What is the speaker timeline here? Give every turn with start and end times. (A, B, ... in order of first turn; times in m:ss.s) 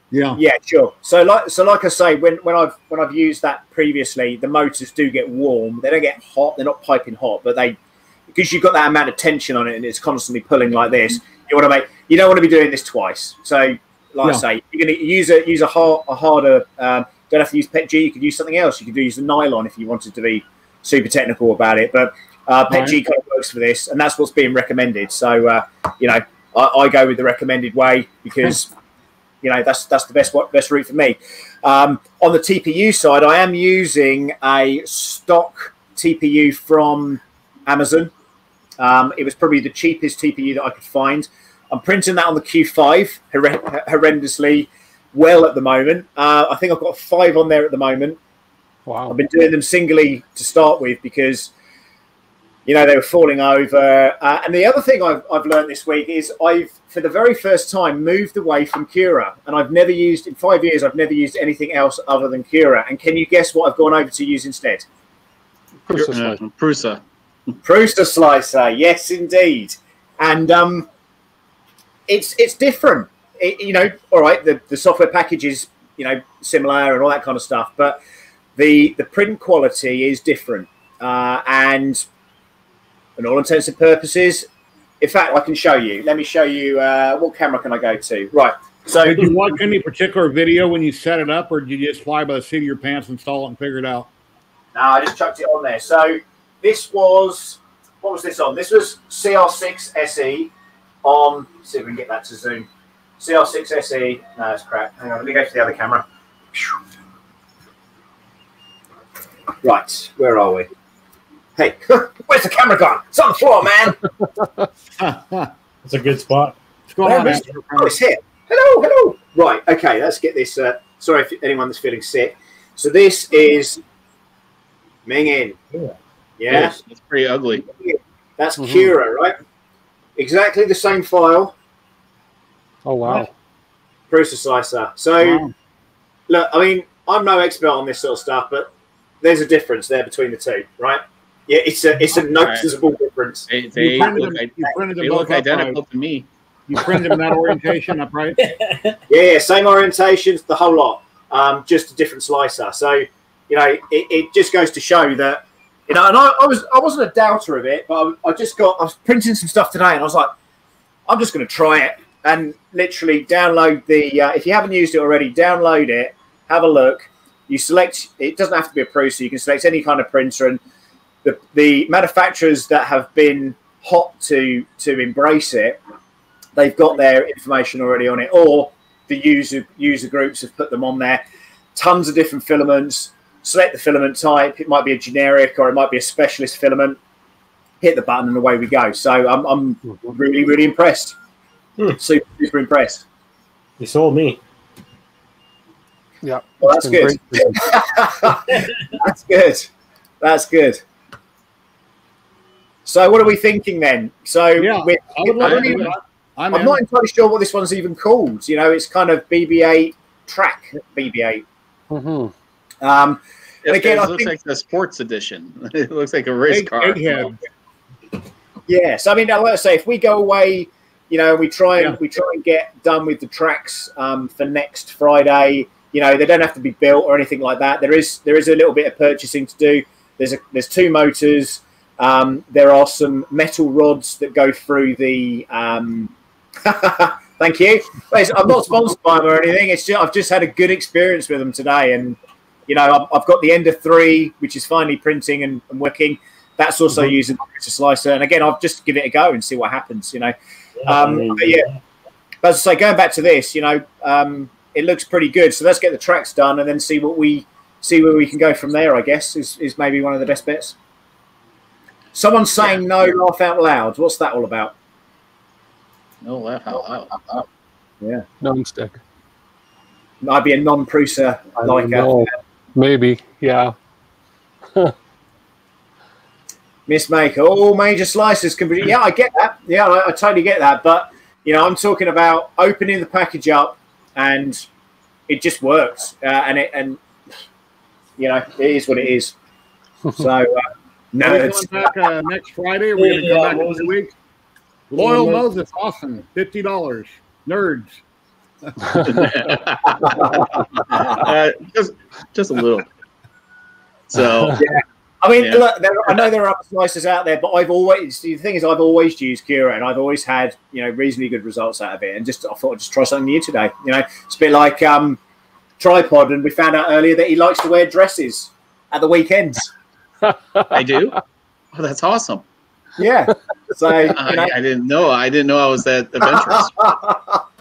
0:00.1-0:00.4 A
0:00.3-0:07.8 B
0:08.3-0:28.7 B
0:22.7-0:23.0 A
0:29.4-0:38.1 B
0:38.8-0:48.2 B
0:48.8-0:49.2 C
0:49.1-0:51.5 B
0:52.6-1:04.9 B
1:05.9-1:06.4 C
1:05.9-1:07.0 D
1:07.6-1:10.9 B
1:12.1-1:18.0 B
1:18.6-1:22.0 B
1:23.2-1:24.5 B
1:25.0-1:29.3 B
1:29.0-1:34.1 A
1:34.7-1:40.5 B
1:41.0-1:42.7 B
1:43.2-1:46.7 B
1:49.6-1:50.7 B
1:51.6-1:54.0 B
1:55.0-1:55.5 A
1:55.8-1:56.6 E
1:56.9-1:57.9 A
1:57.0-2:03.8 B
2:05.0-2:05.6 B
2:06.4-2:06.8 B
2:06.5-2:07.6 D
2:07.7-2:09.3 B
2:08.6-2:08.9 C
2:10.2-2:11.5 B
2:12.8-2:13.3 C
2:14.1-2:15.4 B
2:15.2-2:15.5 A
2:16.3-2:18.7 B
2:19.2-2:24.1 B
2:22.4-2:22.7 D
2:23.5-2:26.3 D
2:23.8-2:25.8 A
2:26.7-2:28.5 A
2:28.4-2:29.0 E
2:29.1-2:40.3 B
2:41.1-2:50.6 B
2:51.2-2:55.8 B
2:56.6-3:01.2 B
3:01.7-3:07.0 B
3:07.8-3:11.1 B
3:09.8-3:10.1 C
3:11.9-3:13.0 B
3:13.8-3:14.4 E
3:16.2-3:17.7 C
3:16.6-3:19.7 B
3:20.2-3:20.8 B
3:22.8-3:25.9 B
3:24.6-3:26.8 A
3:25.4-3:25.9 D
3:26.5-3:31.4 B
3:31.9-3:32.3 C
3:32.8-3:34.3 B
3:33.6-3:37.3 D
3:36.5-3:37.4 A
3:38.7-3:56.1 B
3:56.6-4:10.3 B
4:10.8-4:11.8 E
4:10.8-4:11.7 B
4:12.4-4:20.7 B
4:22.1-4:24.7 B
4:26.2-4:27.4 D
4:28.4-4:29.0 C
4:30.2-4:32.2 B
4:31.6-4:33.7 C
4:36.9-4:44.6 B
4:45.3-4:47.0 B
4:48.2-4:49.3 B
4:50.2-4:51.9 B
4:51.2-4:54.1 A
4:53.0-4:53.9 E
4:54.9-4:58.0 A
4:55.0-4:55.4 E
4:59.0-5:00.4 D
5:01.1-5:02.9 D
5:04.1-5:04.6 D
5:04.6-5:15.2 B
5:05.4-5:06.2 D
5:15.8-5:19.7 B
5:20.2-5:21.0 C
5:20.7-5:21.2 D
5:21.7-5:22.4 D
5:23.0-5:24.5 B
5:24.1-5:26.7 D
5:26.2-5:27.4 B